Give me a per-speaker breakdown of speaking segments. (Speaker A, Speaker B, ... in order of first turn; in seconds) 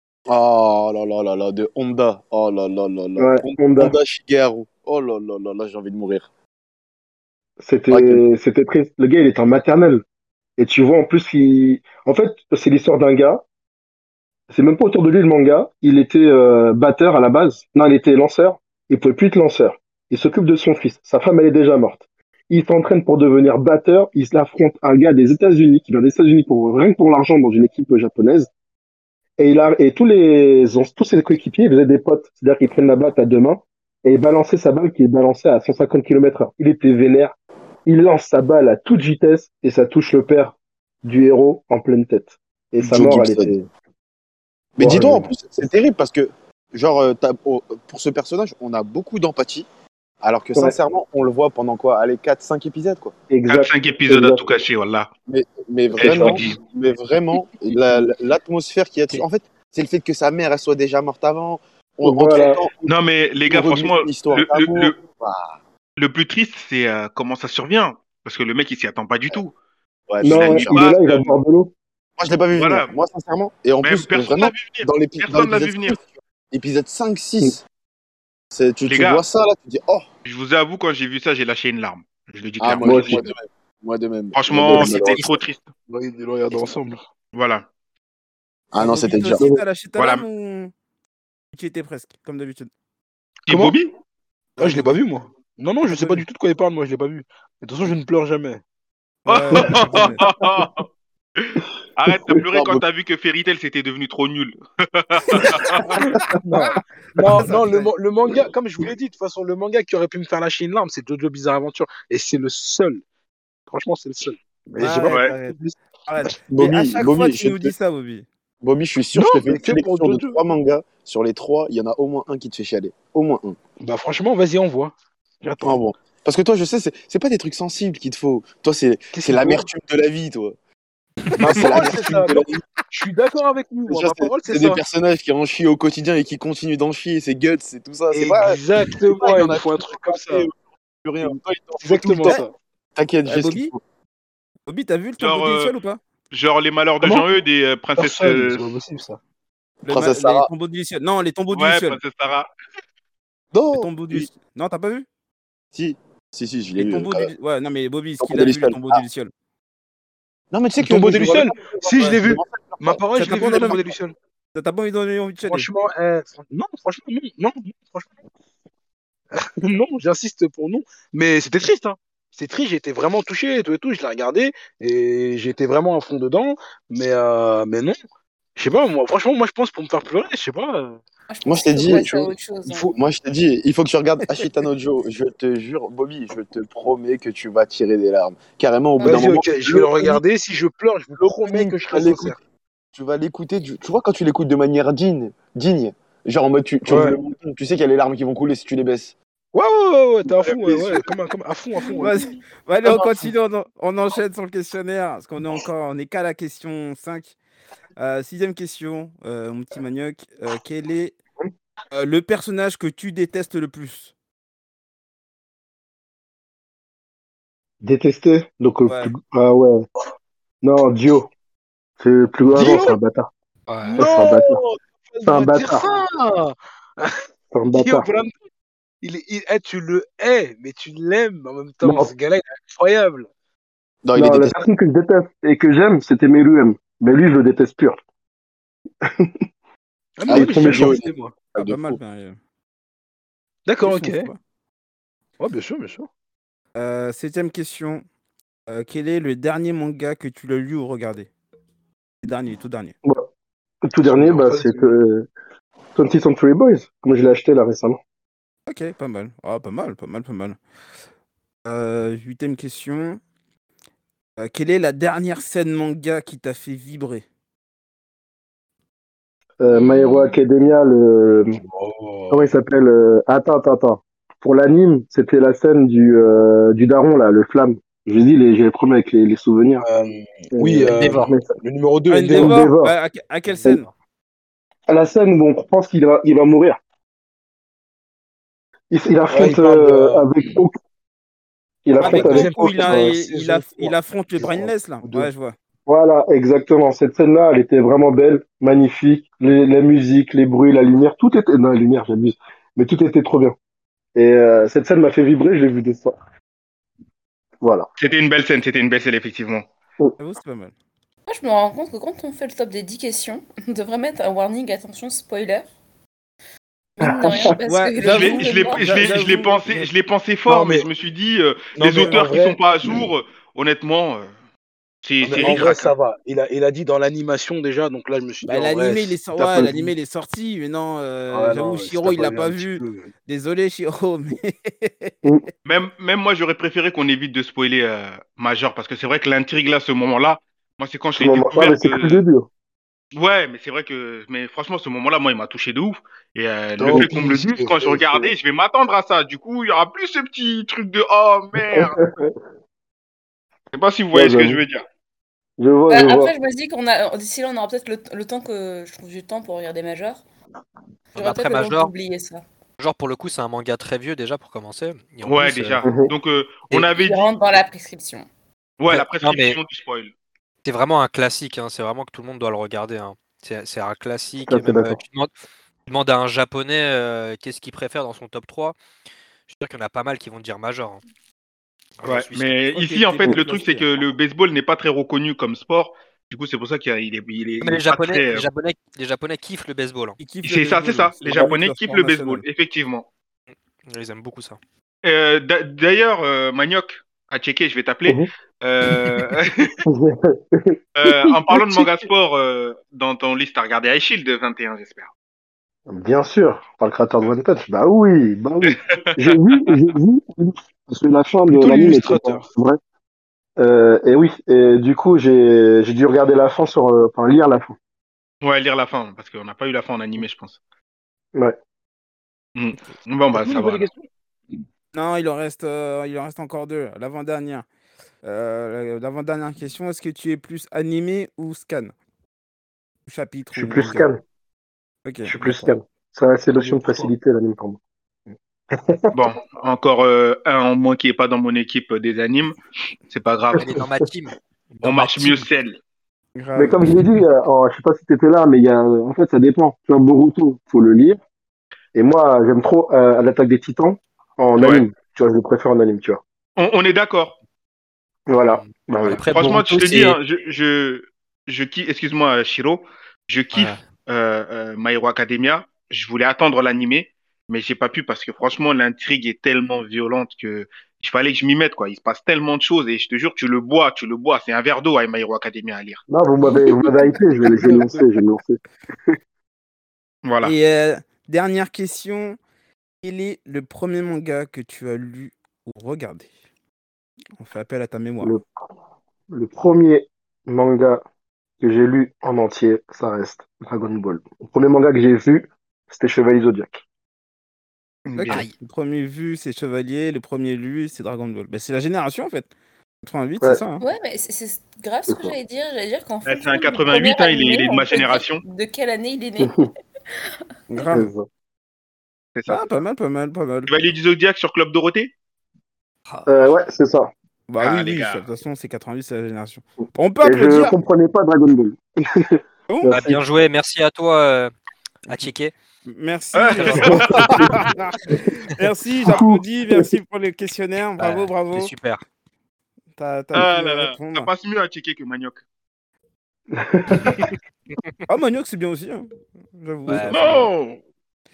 Speaker A: 0.3-6.3, 7.9-8.2, 42.8-43.5, 44.8-49.7, 50.2-53.1, 55.3-65.6, 70.1-70.8, 72.2-77.6, 78.5-80.1, 82.6-85.4, 88.7-89.4, 102.5-102.8, 116.5-117.7, 118.6-123.6, 125.6-130.6, 131.5-132.6, 133.9-140.5, 141.0-142.4, 142.9-143.8, 149.9-150.5, 153.5-154.3, 155.7-157.3, 158.2-159.0, 160.5-163.8, 181.4-190.2, 191.2-192.4, 192.9-199.1, 200.3-201.0, 234.0-234.7, 240.3-242.0
Speaker B: 3.2-3.9, 7.6-10.0, 10.6-13.4, 14.5-28.5, 29.4-37.4, 37.9-43.7, 44.8-45.3, 53.3-54.5, 56.0-56.4, 62.0-62.6, 70.2-71.7, 82.8-83.2, 102.1-102.4, 217.8-219.8, 220.6-221.3, 222.0-223.3, 223.9-224.6, 225.2-225.9, 227.5-228.1, 231.8-232.1, 234.1-238.0, 240.3-240.9, 253.8-255.3, 255.9-258.0, 269.6-271.5, 272.3-279.8, 280.5-281.5, 282.3-282.9, 284.9-286.8, 288.9-290.7, 291.8-293.1, 295.9-303.5, 304.1-306.1, 307.6-307.9, 317.0-317.5, 341.2-342.5, 346.9-347.2, 351.6-352.3, 354.1-354.6, 355.6-356.3, 365.8-366.1, 374.5-375.0, 399.9-400.8, 405.9-412.8, 413.6-417.7, 433.5-434.2, 435.2-437.8, 438.7-439.2, 446.5-451.2, 451.9-456.2, 458.3-459.7, 476.1-478.6, 489.3-491.0, 491.6-496.8, 505.1-505.3, 509.4-509.6, 510.9-511.2, 516.3-517.1, 520.2-523.2, 526.7-527.3, 529.0-529.9, 536.5-537.2
Speaker C: 53.5-55.1, 56.0-56.6, 62.8-65.0, 66.0-69.5, 70.2-71.4, 72.5-72.9, 73.8-76.0, 78.8-79.2, 80.2-83.2, 84.3-85.7, 87.3-87.7, 90.0-90.2, 93.5-93.9, 99.2-100.8, 101.4-105.9, 145.2-145.8, 146.3-148.7, 151.5-152.5, 308.0-309.7, 318.0-324.3, 325.0-325.9, 335.6-342.2, 343.1-352.0, 353.7-354.8, 365.2-367.4, 368.8-370.1, 382.0-388.5, 390.4-393.1, 395.0-399.7, 401.0-405.1, 418.4-420.6, 422.5-423.9, 439.1-442.6, 443.1-443.7, 444.8-445.8, 454.6-454.9, 456.6-457.4, 459.2-476.0, 480.2-480.5, 498.1-498.4, 506.2-508.4, 512.4-512.6, 513.7-515.1, 517.6-518.3, 526.3-527.6, 533.3-535.4, 540.1-540.5
Speaker D: 85.0-85.2, 85.9-87.0, 93.5-93.8, 94.6-98.6, 106.4-113.0, 113.7-115.8, 119.1-120.4, 123.8-125.8, 129.1-129.7, 131.4-134.8, 138.1-140.5, 141.8-142.5, 147.0-147.4, 147.9-149.2, 160.8-164.1, 165.4-168.1, 169.3-178.0, 178.6-181.0, 189.0-192.4, 196.8-197.2, 199.5-202.1, 222.5-223.0, 224.0-228.3, 229.0-233.3, 240.2-241.3, 243.7-244.3, 245.4-246.1, 254.0-254.9, 271.6-272.6, 279.8-282.6, 289.3-290.3, 292.0-295.3, 320.5-320.9, 321.7-323.0, 325.2-329.9, 331.3-333.1, 346.8-348.3, 401.5-401.8, 411.5-412.4, 423.3-424.1, 436.5-437.1, 477.1-478.1, 540.2-540.8
Speaker E: 88.8-90.7, 91.5-92.7, 94.6-94.9, 95.9-96.2, 99.2-100.3, 107.3-107.9, 114.8-118.2, 143.2-143.7, 144.7-146.0, 149.8-152.0, 153.7-155.1, 156.8-159.3, 163.2-163.8, 164.5-165.7, 202.0-207.3, 208.0-211.2, 211.9-214.1, 218.9-219.1, 241.6-242.4, 243.8-244.4, 246.7-248.0, 248.7-251.3, 252.2-252.9, 258.7-260.6, 261.6-263.2, 264.4-267.2, 282.1-283.9, 292.0-295.5, 310.2-310.7, 317.4-319.9, 328.4-335.1, 382.7-383.9, 390.2-392.4, 424.9-427.6, 428.2-431.9, 433.1-434.1, 435.0-435.7, 446.4-446.8, 480.4-482.4, 483.0-486.3, 487.4-488.3, 498.1-502.5, 503.0-503.8, 510.7-511.1, 512.5-513.7, 517.5-520.8, 522.7-523.0, 525.9-531.7, 533.0-534.3, 538.1-540.5
Speaker F: 181.3-182.9, 189.0-189.3, 269.7-270.2, 311.3-315.7, 317.0-319.6, 355.9-360.2, 361.1-362.4, 366.7-368.2, 503.8-509.7
Speaker G: 223.7-223.9, 283.5-283.9, 361.1-361.9, 362.8-365.8, 368.9-369.6, 370.6-375.3, 375.9-378.8, 379.5-381.0, 382.0-382.5, 387.6-390.2, 393.9-394.6, 443.6-445.4, 458.5-460.2, 463.5-463.9, 498.3-498.5, 522.9-524.5, 525.1-525.5, 531.0-532.0, 539.9-540.2